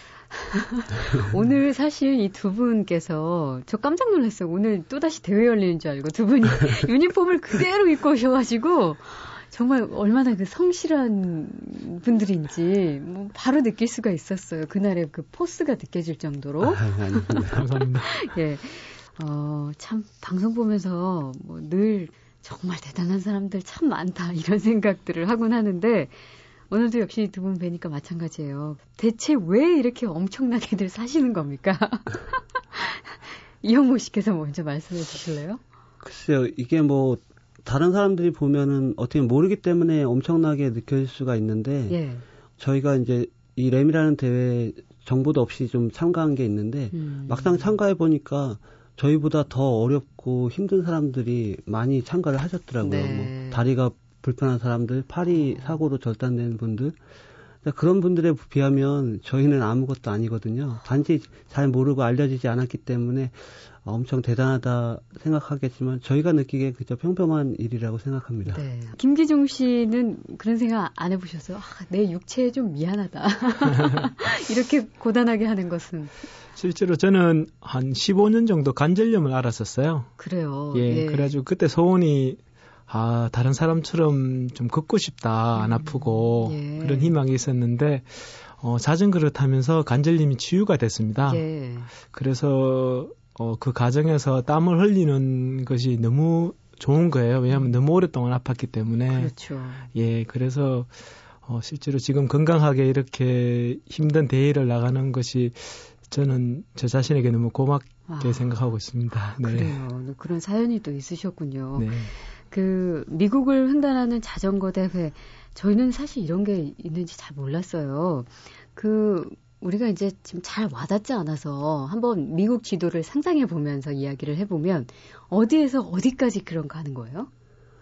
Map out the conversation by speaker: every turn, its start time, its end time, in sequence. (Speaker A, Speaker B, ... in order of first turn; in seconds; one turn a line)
Speaker A: 0.3-26.1
Speaker B: 16.6-17.6
Speaker C: 17.5-18.1
Speaker A: 26.7-35.6
Speaker B: 36.0-42.0
Speaker A: 41.9-42.2
Speaker B: 42.6-57.0
Speaker A: 46.9-47.7
Speaker A: 52.8-53.6
Speaker B: 57.6-68.6
Speaker A: 68.5-76.1
Speaker C: 76.5-80.1
Speaker A: 80.2-81.4
Speaker C: 80.7-91.4
Speaker A: 85.5-87.1
Speaker A: 91.2-91.9
Speaker C: 92.0-99.3
Speaker A: 99.1-99.9
Speaker C: 99.9-100.9
Speaker C: 101.4-109.8
Speaker A: 108.1-108.5
Speaker A: 109.1-127.3
Speaker C: 111.8-112.1